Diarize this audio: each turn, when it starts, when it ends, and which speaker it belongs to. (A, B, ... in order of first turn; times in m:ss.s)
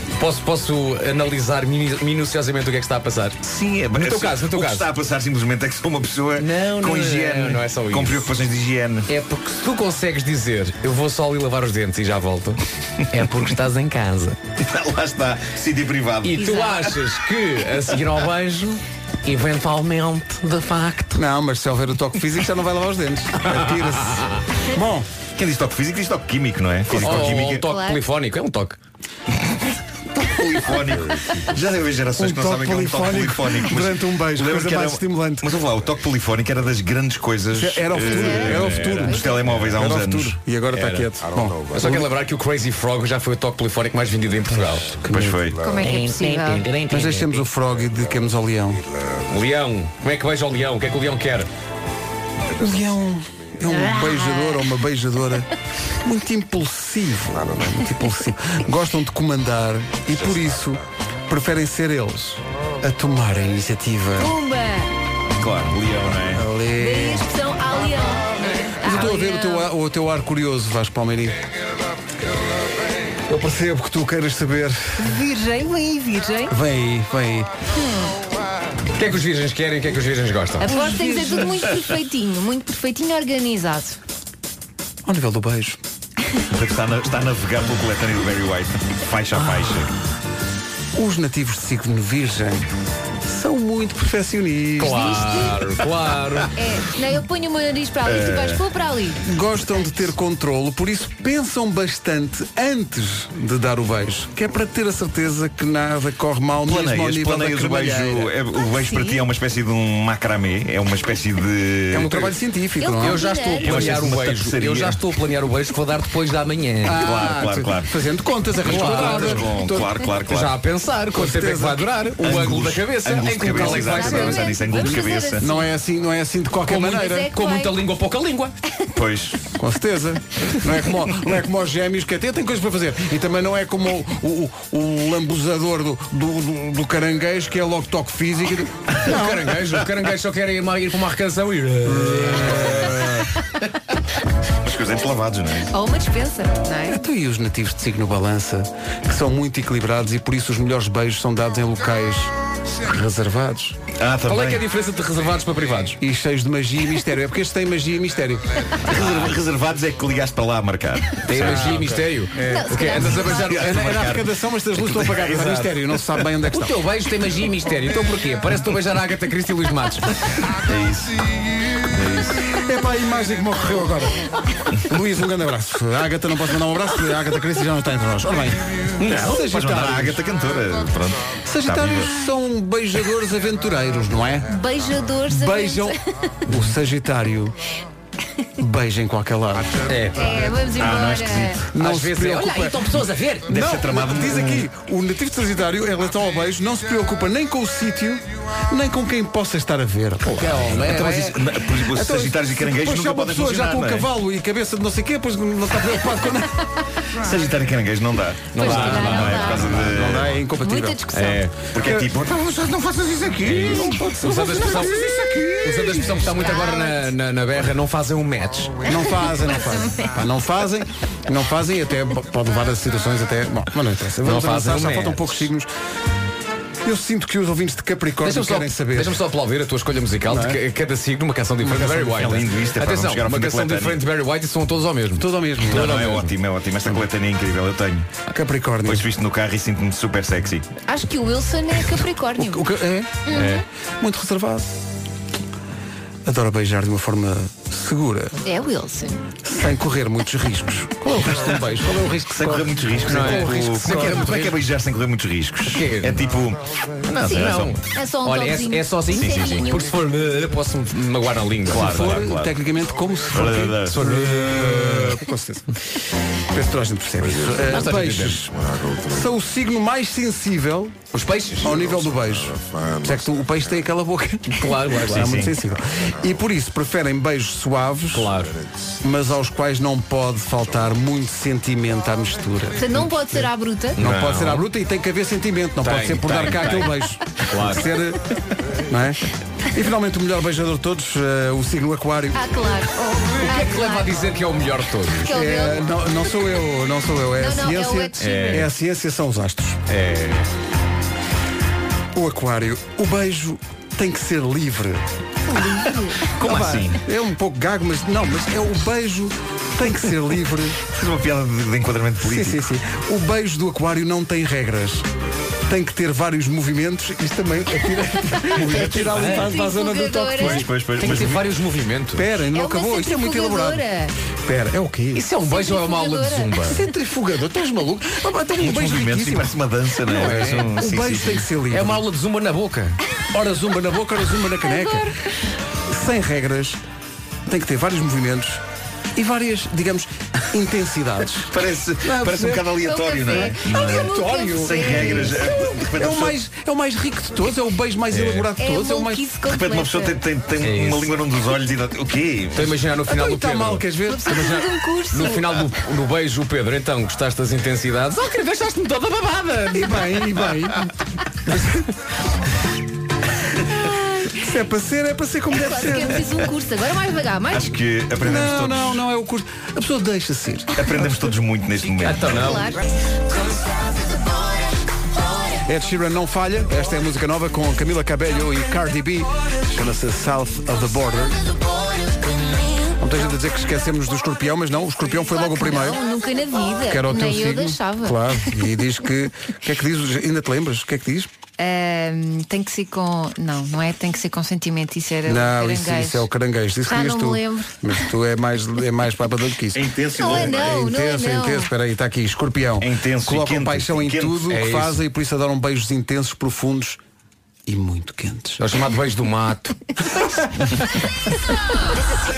0:00.2-0:03.4 A
0:03.4-0:09.1 B
0:03.9-0:04.9 A
0:06.4-0:08.3 A
0:09.1-0:14.4 A
0:14.6-0:16.5 B
0:16.2-0:21.2 A
0:16.3-0:16.9 C
0:21.1-0:25.1 D
0:23.5-0:24.4 A
0:25.4-0:27.7 B
0:26.9-0:28.8 A
0:27.6-0:28.0 C
0:30.2-0:40.4 B
0:32.2-0:35.5 D
0:37.5-0:42.1 D
0:38.0-0:39.5 C
0:40.7-0:41.1 A
0:41.7-0:45.0 A
0:45.0-0:45.5 D
0:45.1-0:45.6 B
0:45.6-0:46.7 C
0:45.8-0:47.4 A
0:46.9-0:48.8 D
0:49.3-0:51.5 A
0:52.6-0:55.5 D
0:53.7-0:54.7 C
0:56.0-1:04.3 D
1:04.2-1:04.9 C
1:05.4-1:06.4 B
1:06.3-1:07.3 D
1:06.7-1:09.7 C
1:08.8-1:11.4 D
1:13.3-1:15.1 D
1:15.0-1:16.5 C
1:16.5-1:17.5 D
1:17.8-1:18.1 C
1:19.0-1:20.7 A
1:20.6-1:24.0 C
1:20.7-1:21.4 D
1:25.0-1:25.8 D
1:26.5-1:29.9 B
1:30.9-1:32.7 D
1:33.2-1:35.4 D
1:34.8-1:36.5 A
1:34.8-1:35.7 C
1:36.5-1:39.2 C
1:38.0-1:38.6 B
1:39.2-1:48.3 D
1:46.6-1:52.3 B
1:48.5-1:49.2 C
1:51.9-1:53.2 D
1:52.8-1:53.9 C
1:53.0-1:57.0 A
1:53.6-1:55.0 B
1:56.8-2:00.0 D
1:56.9-1:57.9 B
1:58.6-2:00.6 B
1:58.6-1:59.5 A
2:00.2-2:04.6 A
2:01.1-2:02.0 D
2:02.2-2:05.4 B
2:03.5-2:05.7 C
2:05.4-2:07.3 D
2:06.7-2:08.5 A
2:06.9-2:07.8 C
2:08.9-2:09.4 B
2:09.6-2:19.5 D
2:19.0-2:23.1 A
2:21.8-2:23.3 D
2:24.6-2:25.7 B
2:25.7-2:27.0 C
2:26.9-2:33.8 D
2:34.0-2:34.6 B
2:34.2-2:36.0 A
2:36.0-2:38.9 D
2:38.9-2:42.0 B
2:38.9-2:39.3 A
2:41.2-2:44.0 A
2:41.3-2:46.8 D
2:42.4-2:43.5 C
2:43.4-2:44.3 B
2:44.8-2:45.4 B
2:45.2-2:45.7 A
2:46.5-2:50.1 A
2:50.6-2:51.2 B
2:51.9-2:52.4 B
2:52.5-2:54.2 D
2:54.8-3:00.2 D
2:59.0-3:02.1 B
3:01.4-3:04.5 D
3:04.5-3:06.4 C
3:05.3-3:07.6 D
3:08.6-3:10.0 D
3:09.9-3:10.4 A
3:10.1-3:11.6 C
3:10.8-3:11.6 B
3:11.7-3:12.9 D
3:11.8-3:13.6 A
3:13.5-3:26.5 D
3:13.5-3:14.6 B
3:20.3-3:21.3 A
3:20.7-3:24.1 B
3:27.2-3:30.4 B
3:28.5-3:29.8 A
3:28.6-3:29.7 C
3:29.4-3:31.0 D
3:30.6-3:31.4 C
3:31.1-3:31.5 A
3:31.7-3:33.9 B
3:31.8-3:32.1 D
3:33.2-3:36.3 D
3:33.7-3:35.0 A
3:35.6-3:38.8 A
3:36.3-3:37.1 C
3:38.8-3:45.7 D
3:39.5-3:40.1 C
3:44.2-3:45.5 A
3:46.8-3:49.2 D
3:48.2-3:56.3 A
3:50.3-3:50.6 D
3:51.6-3:52.4 D
3:52.2-3:54.0 B
3:55.2-3:56.1 D
3:55.7-3:58.1 B
3:58.3-3:59.0 D
3:58.8-4:00.6 B
4:00.8-4:02.7 C
4:02.4-4:04.8 D
4:03.2-4:03.6 C
4:03.3-4:03.6 A
4:06.2-4:08.4 D
4:08.4-4:09.2 C
4:09.4-4:14.4 D
4:11.1-4:12.0 A
4:12.3-4:17.7 B
4:13.0-4:14.5 A
4:15.7-4:16.2 A
4:17.1-4:22.2 A
4:17.9-4:19.9 C
4:19.1-4:19.6 B
4:21.7-4:25.6 D
4:21.7-4:22.6 B
4:23.3-4:24.0 B
4:23.9-4:25.2 A
4:26.5-4:28.5 D
4:27.5-4:28.5 A
4:29.0-4:31.1 D
4:31.1-4:31.8 A
4:31.6-4:38.3 D
4:34.5-4:35.4 A
4:35.1-4:35.6 B
4:38.1-4:38.6 A
4:39.0-4:43.5 D
4:42.8-4:44.0 C
4:44.0-4:44.6 A
4:44.0-4:48.2 D
4:44.1-4:44.3 B
4:45.8-4:47.9 A
4:48.8-4:49.2 D
4:49.7-4:52.4 D
4:52.3-4:54.4 C
4:53.4-4:55.3 A
4:55.2-4:55.9 C
4:55.3-4:59.8 D
4:57.4-4:58.7 C
4:58.2-4:58.7 A
4:59.9-5:00.5 A
5:02.1-5:05.0 D
5:05.5-5:06.3 C
5:06.4-5:07.0 B
5:06.4-5:10.8 D
5:10.9-5:12.6 B
5:12.2-5:15.1 D
5:15.7-5:20.7 D
5:18.7-5:19.4 B
5:19.0-5:19.5 A
5:19.3-5:20.7 C
5:20.4-5:21.4 B
5:21.0-5:22.3 A
5:22.2-5:23.8 D
5:22.5-5:24.1 C
5:24.4-5:25.3 D
5:25.1-5:26.8 A
5:25.4-5:26.6 C
5:26.6-5:29.6 D
5:28.6-5:31.4 B
5:30.1-5:32.0 D
5:30.1-5:30.7 A
5:31.7-5:33.0 A
5:33.3-5:35.1 D
5:34.6-5:35.1 C
5:35.9-5:36.8 D
5:37.5-5:38.6 D
5:39.1-5:42.8 D
5:41.5-5:46.4 B
5:42.8-5:45.6 C
5:43.3-5:49.3 D
5:48.1-5:48.5 A
5:48.6-5:50.2 C
5:49.4-5:52.8 B
5:50.6-5:51.1 A
5:52.5-6:00.2 A
5:53.1-5:54.7 D
5:54.0-5:55.6 C
5:59.7-6:00.9 D
6:01.5-6:01.8 A
6:03.9-6:04.3 C
6:04.3-6:06.2 D
6:05.5-6:07.8 C
6:07.5-6:09.0 B
6:08.2-6:11.0 D
6:10.7-6:12.4 B
6:12.0-6:12.8 A
6:12.3-6:12.8 C
6:15.6-6:21.5 D
6:23.0-6:26.0 D
6:25.3-6:28.6 C
6:26.8-6:31.3 D
6:31.6-6:36.3 C
6:35.2-6:47.0 D
6:36.9-6:37.8 C
6:39.7-6:40.8 B
6:40.1-6:41.7 C
6:42.8-6:44.5 B
6:44.5-6:45.0 A
6:47.6-6:48.6 D
6:48.6-6:49.8 A